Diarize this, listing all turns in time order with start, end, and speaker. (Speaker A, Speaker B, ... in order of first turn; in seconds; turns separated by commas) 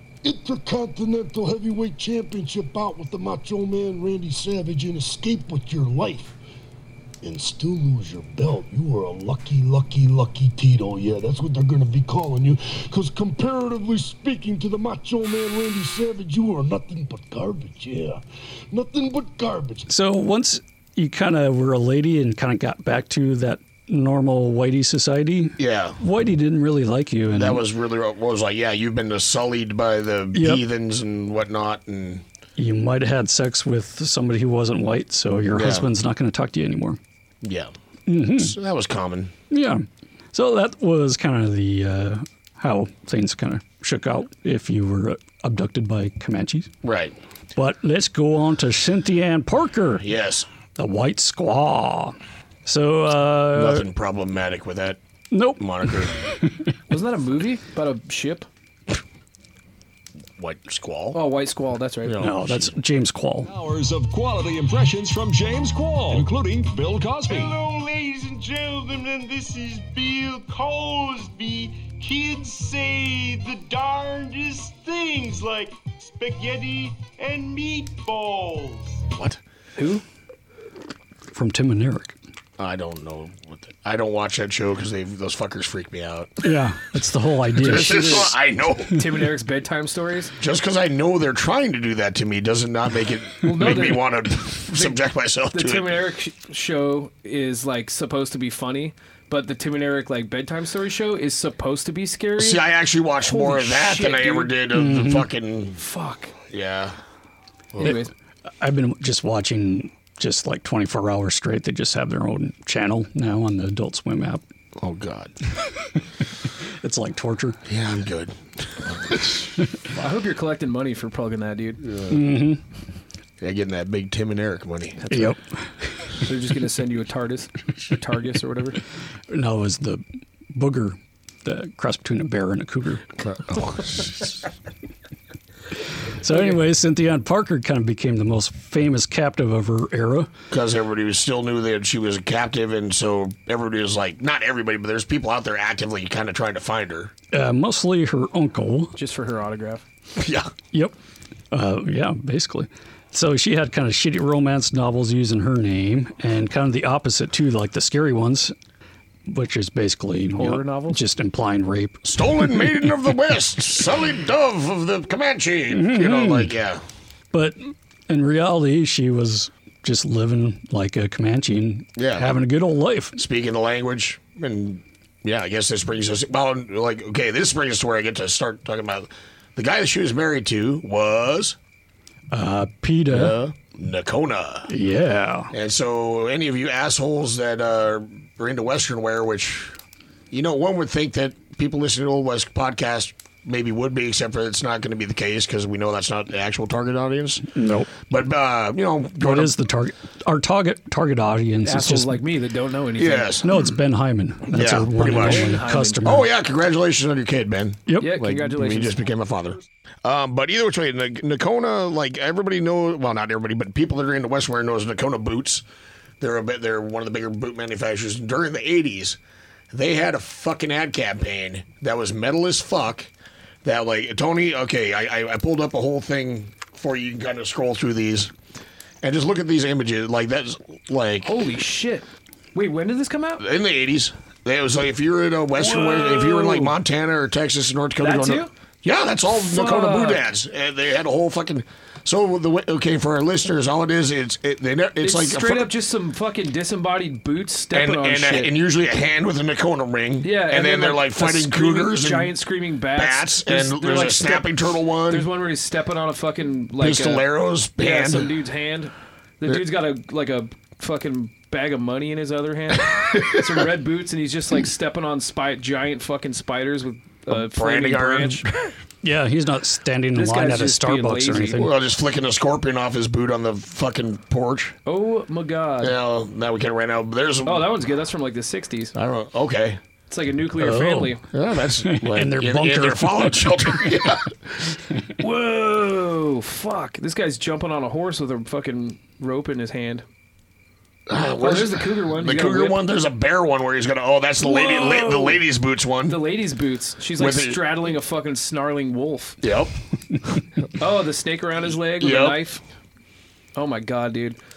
Speaker A: 0.2-6.4, Speaker A: 7.2-19.9, Speaker B: 19.9-27.6, Speaker C: 25.6-26.0, Speaker C: 27.3-32.2, Speaker B: 30.3-30.6, Speaker B: 32.6-37.0, Speaker C: 35.5-35.9, Speaker C: 37.4-37.7, Speaker B: 38.1-38.5, Speaker C: 38.2-39.3, Speaker B: 39.5-46.7, Speaker C: 46.8-47.1, Speaker B: 47.6-50.1, Speaker C: 50.0-50.5, Speaker B: 50.8-53.9, Speaker C: 53.5-55.0, Speaker B: 55.3-55.9, Speaker C: 55.6-56.2, Speaker D: 56.9-58.5, Speaker C: 60.4-61.2, Speaker D: 61.1-62.2, Speaker C: 62.1-62.7, Speaker B: 62.2-63.5, Speaker E: 63.4-67.6, Speaker F: 67.3-79.1, Speaker D: 79.8-80.0, Speaker B: 81.3-82.2, Speaker C: 82.6-86.5, Speaker B: 86.4-88.3, Speaker C: 87.6-89.0, Speaker D: 87.7-88.3, Speaker D: 88.9-90.3, Speaker C: 90.4-96.0, Speaker D: 93.4-102.6, Speaker C: 102.4-105.8, Speaker D: 103.2-104.5, Speaker B: 104.7-105.3, Speaker D: 105.8-106.3, Speaker C: 106.5-106.9, Speaker D: 107.8-108.1, Speaker B: 108.6-114.4, Speaker C: 114.8-115.3, Speaker B: 116.8-117.6, Speaker C: 117.7-120.1, Speaker D: 120.0-121.8, Speaker C: 121.8-122.2, Speaker B: 122.1-122.6, Speaker C: 123.4-125.1, Speaker B: 125.1-125.6, Speaker D: 126.2-128.8, Speaker B: 129.3-130.0, Speaker B: 130.5-133.1, Speaker C: 133.2-134.4, Speaker B: 136.2-140.3, Speaker C: 140.5-147.1, Speaker B: 147.3-148.9, Speaker D: 149.0-149.8, Speaker C: 150.2-150.5, Speaker B: 151.5-158.5, Speaker B: 159.3-162.1, Speaker D: 160.4-161.0, Speaker C: 162.1-166.8, Speaker B: 165.7-166.5, Speaker B: 167.3-173.2, Speaker C: 172.0-172.4, Speaker C: 173.2-181.6, Speaker B: 182.3-183.3, Speaker C: 183.1-184.7, Speaker B: 184.7-185.5, Speaker C: 185.5-189.8, Speaker C: 190.3-197.5, Speaker B: 197.5-197.9, Speaker C: 198.0-199.6, Speaker B: 199.2-202.2, Speaker D: 201.7-203.3, Speaker C: 203.0-203.6, Speaker B: 203.4-206.3, Speaker C: 204.5-215.6, Speaker D: 205.0-206.0, Speaker B: 207.9-208.1, Speaker D: 208.0-209.0, Speaker C: 216.2-219.2, Speaker C: 219.7-223.1, Speaker C: 223.6-228.3, Speaker C: 229.0-231.4, Speaker D: 231.2-233.4, Speaker C: 233.4-245.7, Speaker D: 235.6-236.8, Speaker D: 238.0-238.5, Speaker D: 239.3-240.2, Speaker D: 245.0-248.5, Speaker C: 247.7-252.3, Speaker D: 250.2-268.4, Speaker C: 252.9-255.3, Speaker C: 256.8-258.3, Speaker C: 263.0-263.3, Speaker C: 267.3-268.7, Speaker B: 269.0-271.7, Speaker D: 270.1-271.6, Speaker C: 271.5-274.8, Speaker D: 274.9-276.0, Speaker C: 275.8-277.7, Speaker D: 277.4-278.9, Speaker C: 278.9-279.8, Speaker D: 280.1-281.2, Speaker B: 280.6-281.2, Speaker C: 281.3-284.3, Speaker B: 281.8-283.9, Speaker D: 285.2-290.0, Speaker C: 291.1-296.2, Speaker D: 291.4-292.8, Speaker D: 294.4-295.4, Speaker D: 296.1-299.4, Speaker C: 297.2-297.9, Speaker C: 299.4-299.7, Speaker D: 300.8-302.6, Speaker C: 302.0-302.4, Speaker D: 303.6-304.4